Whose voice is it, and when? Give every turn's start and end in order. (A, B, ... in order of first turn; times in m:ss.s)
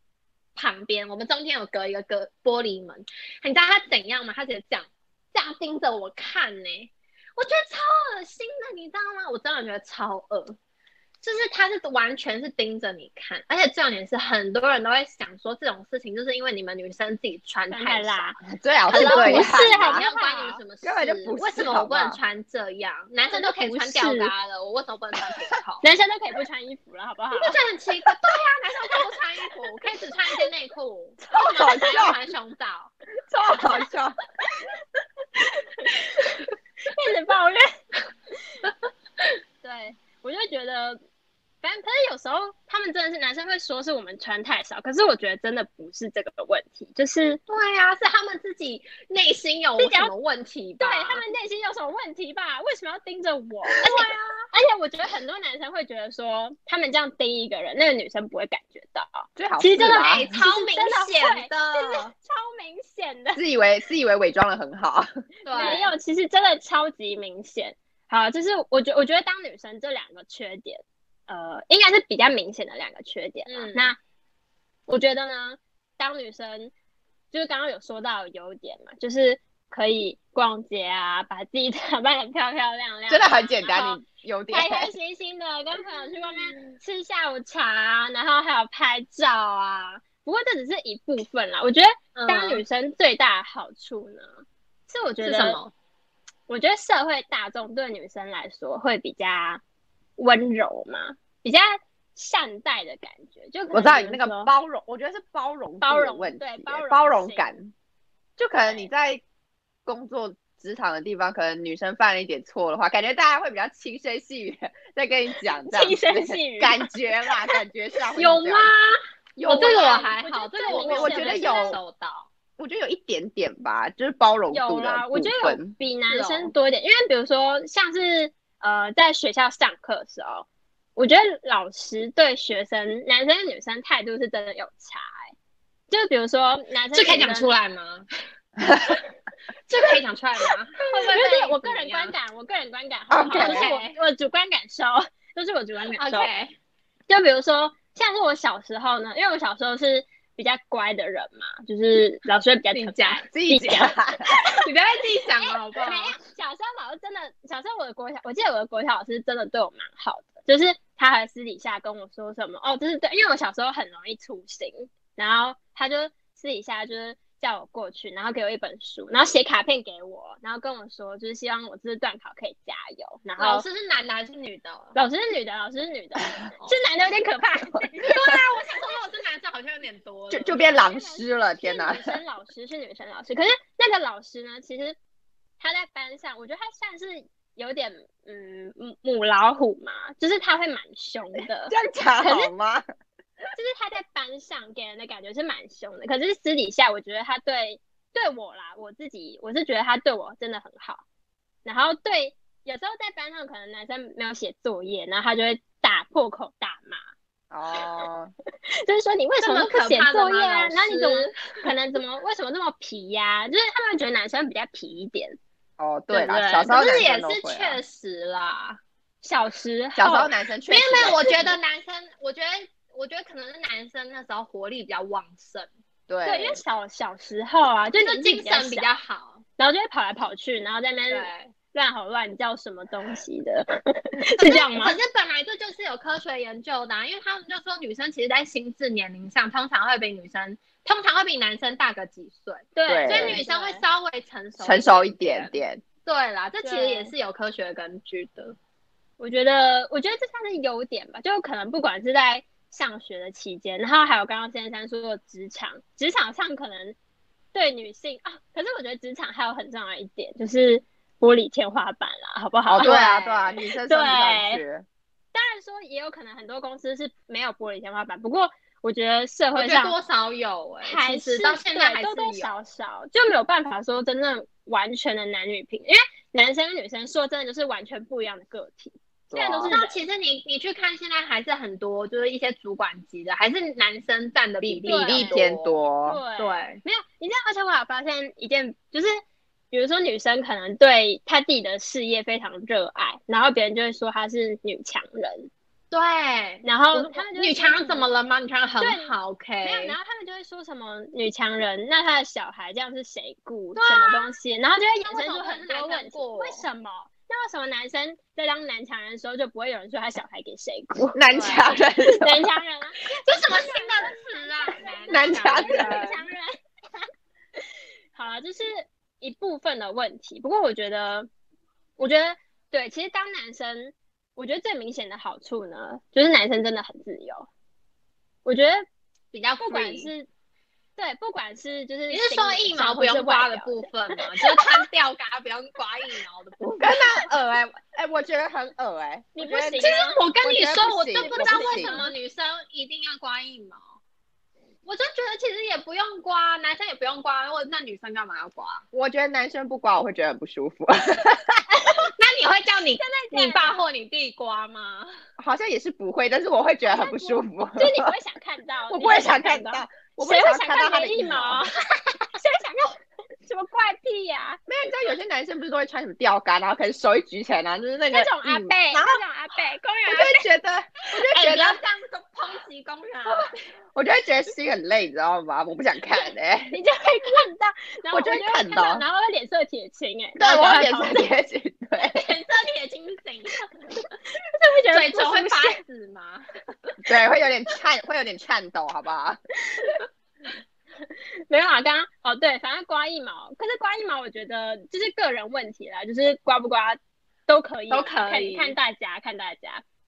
0:00.6-0:10.6 A
0:11.2-0:18.3 A
0:17.7-0:18.4 B
0:18.5-0:20.0 C
0:18.9-0:25.8 A
0:18.9-0:20.6 B
0:20.8-0:22.2 C
0:23.2-0:24.3 B
0:25.8-0:27.6 B
0:27.4-0:32.9 A
0:31.3-0:32.2 C
0:31.4-0:32.0 B
0:33.3-0:34.2 C
0:35.8-0:37.8 B
0:39.6-0:41.0 B
0:41.6-0:47.4 B
0:47.5-0:51.2 A
0:49.8-0:50.1 B
0:50.8-1:03.4 B
0:53.8-0:54.5 A
0:59.4-1:00.3 C
0:59.8-1:02.1 A
1:03.4-1:05.1 C
1:05.5-1:05.9 A
1:05.5-1:14.0 B
1:13.5-1:13.9 A
1:14.9-1:16.7 B
1:17.3-1:35.6 B
1:23.1-1:24.9 C
1:32.1-1:32.6 A
1:35.2-1:35.7 A
1:36.5-1:39.6 B
1:40.2-1:44.5 B
1:43.7-1:47.7 C
1:45.8-1:47.5 B
1:48.4-1:49.2 C
1:48.5-1:48.9 B
1:49.9-1:58.7 C
1:55.5-1:56.9 B
1:58.2-2:02.3 A
1:59.4-2:00.1 C
1:59.5-2:01.8 B
2:00.7-2:01.8 C
2:02.6-2:05.7 C
2:04.5-2:15.3 B
2:06.1-2:06.5 A
2:15.9-2:17.5 B
2:16.9-2:18.1 A
2:18.6-2:19.0 C
2:19.7-2:22.1 A
2:20.9-2:26.3 B
2:23.1-2:23.7 C
2:23.3-2:24.0 A
2:26.0-2:26.5 A
2:27.1-2:33.9 B
2:32.7-2:33.3 A
2:33.3-2:34.3 C
2:34.6-2:36.1 A
2:35.8-2:53.6 B
2:53.4-2:55.0 A
2:55.0-2:58.3 B
2:58.0-3:00.7 A
3:00.3-3:02.2 C
3:00.6-3:05.0 B
3:05.6-3:12.5 B
3:11.7-3:12.8 C
3:13.6-3:21.0 B
3:21.6-3:27.0 B
3:27.5-3:28.3 C
3:28.9-3:35.4 B
3:29.4-3:31.4 A
3:35.8-3:37.8 C
3:36.1-3:36.7 B
3:36.6-3:38.8 A
3:39.2-3:40.3 B
3:40.0-3:41.6 C
3:40.7-3:45.7 A
3:46.1-3:46.6 C
3:46.2-3:48.9 B
3:48.0-3:49.4 A
3:49.6-3:55.0 B
3:51.1-3:51.5 A
3:54.4-4:08.6 A
4:02.8-4:03.8 B
4:02.9-4:03.4 C
4:04.6-4:05.8 C
4:06.6-4:07.1 B
4:09.2-4:17.0 B
4:17.5-4:24.6 B
4:22.7-4:24.9 C
4:22.8-4:23.3 A
4:25.3-4:30.0 B
4:29.6-4:32.6 A
4:30.8-4:40.0 B
4:39.3-4:39.8 C
4:39.7-4:45.8 A
4:44.6-4:46.2 C
4:44.9-4:45.4 B
4:46.0-4:49.2 B
4:46.4-4:46.8 A
4:49.7-4:55.5 B
4:55.9-5:00.0 A
4:56.6-4:58.1 B
4:58.8-5:11.2 B
5:03.8-5:04.3 A
5:05.1-5:06.6 A
5:11.1-5:12.5 C
5:11.3-5:11.7 A
5:12.1-5:17.6 B
5:13.2-5:16.2 A
5:15.1-5:16.1 C
5:18.1-5:21.3 B
5:22.0-5:27.5 B
5:28.4-5:28.9 B
5:29.3-5:30.1 A
5:29.6-5:30.3 B
5:31.0-5:34.8 B
5:32.1-5:37.3 A
5:36.8-5:42.0 C
5:39.4-5:40.2 B
5:39.8-5:43.8 A
5:41.2-5:42.1 B
5:44.9-5:48.8 A
5:48.9-5:51.6 C
5:52.1-5:55.1 A
5:53.0-5:53.8 B
5:55.4-5:58.1 C
5:56.9-6:01.7 B
5:58.9-6:01.6 C
6:02.4-6:04.6 B
6:04.7-6:09.2 C
6:08.1-6:10.4 B
6:10.1-6:11.8 C
6:11.2-6:13.6 A
6:14.0-6:16.8 C
6:16.7-6:21.3 B
6:18.1-6:19.0 C
6:20.4-6:22.2 C
6:22.1-6:24.0 A
6:24.6-6:25.8 B
6:24.9-6:27.0 A
6:27.0-6:29.4 C
6:31.0-6:39.8 B
6:37.9-6:38.8 A